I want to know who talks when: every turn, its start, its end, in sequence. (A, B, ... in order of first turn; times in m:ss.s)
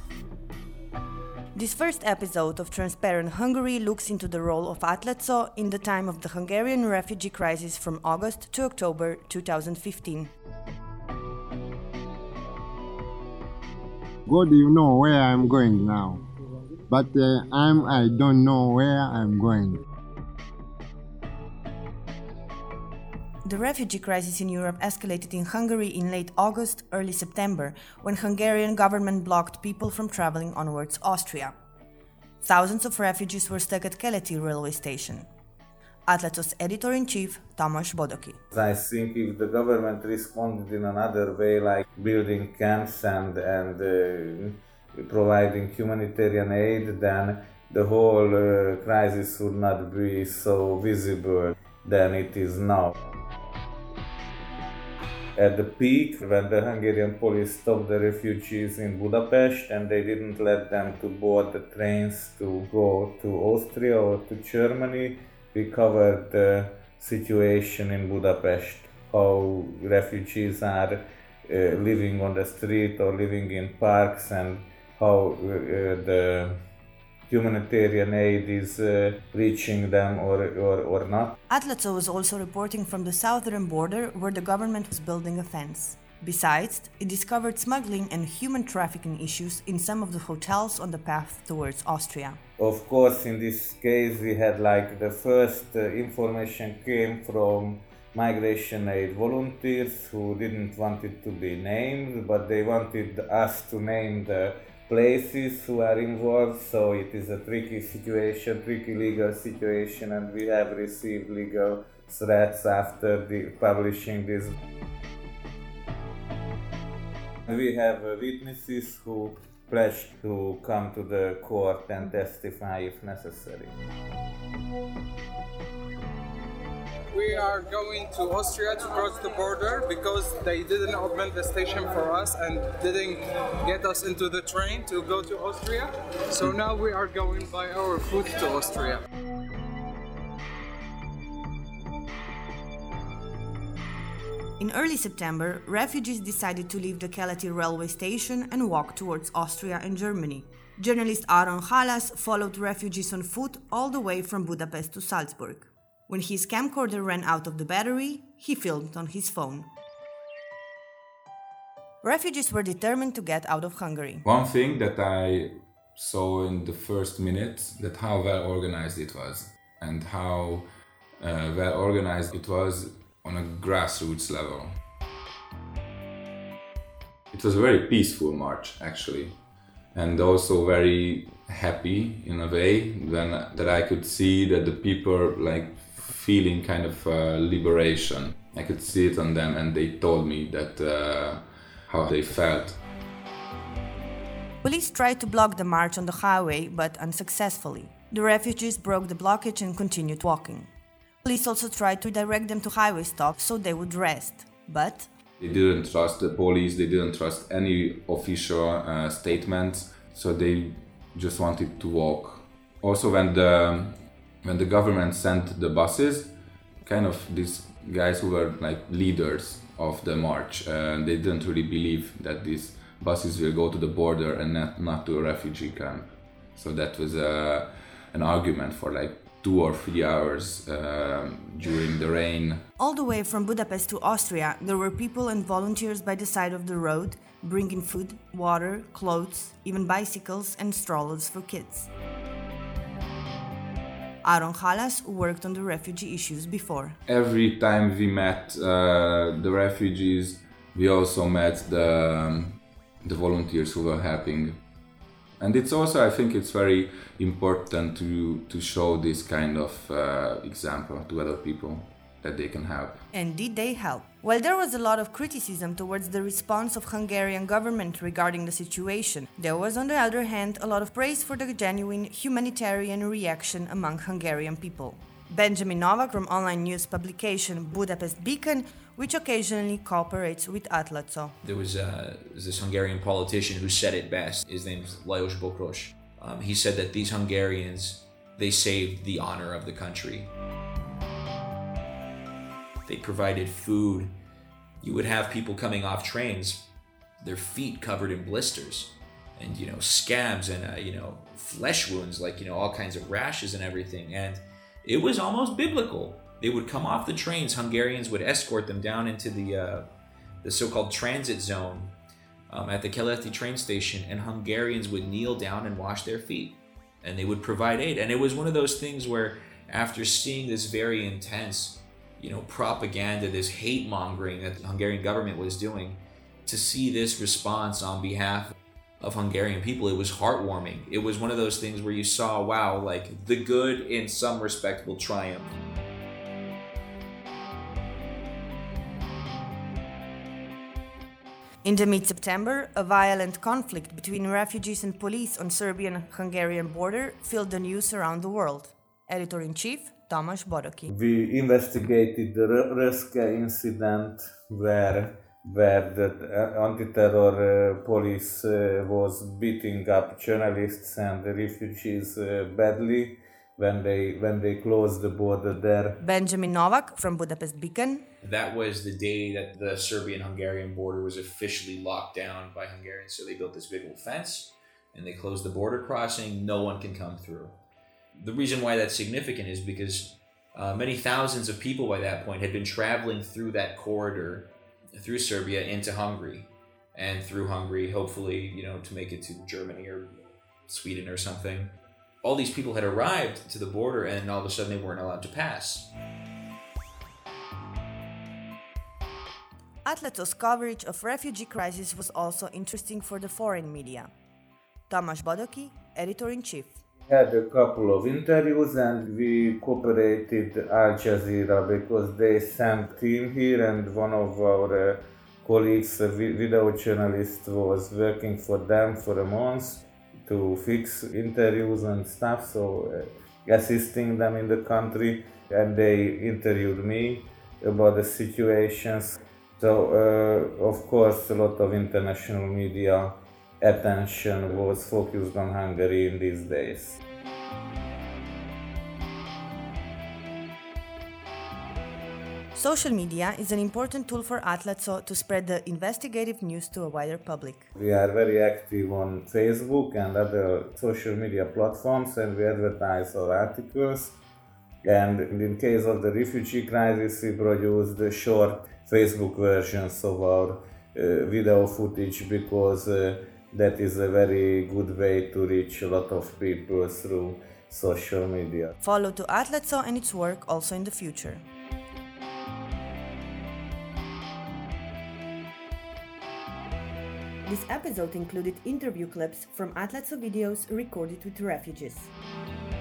0:01.5-0:10.3 A
0:14.3-0:16.2 B
0:16.9-0:19.8 B
0:23.4-0:31.5 A
0:32.4-0:35.3 A
0:36.0-0:38.4 A
0:38.5-0:52.9 C
0:55.4-1:16.6 C
1:17.3-1:21.4 C
1:21.5-1:32.4 A
1:32.6-1:54.5 C
1:57.5-2:03.7 C
2:07.1-2:19.0 D
2:24.6-2:39.7 A
2:42.0-2:44.2 A
2:44.2-2:50.7 E
2:51.2-2:54.7 E
2:57.3-2:59.4 E
2:59.9-3:12.8 E
3:14.6-3:20.7 A
3:21.2-3:25.1 A
3:25.4-3:52.6 E
3:52.8-4:01.9 A
4:04.2-4:07.0 A
4:07.1-4:14.6 E
4:15.4-4:23.0 E
4:23.1-4:41.3 A
4:41.4-4:50.3 F
4:52.8-4:54.1 F
4:54.8-4:56.6 F
4:57.2-5:09.9 F
5:10.4-5:11.9 F
5:12.5-5:35.5 F
5:41.6-5:50.9 A
5:50.9-6:06.0 C
6:06.0-6:08.0 A
6:08.2-6:17.5 F
6:18.2-6:30.1 F
6:30.7-6:35.9 F
6:39.8-6:44.1 A
6:44.9-6:46.8 A
6:47.1-7:17.0 C
7:22.5-7:27.7 A
7:27.8-7:34.2 C
7:34.8-7:48.7 C
7:48.8-7:51.4 A
7:57.4-8:02.1 A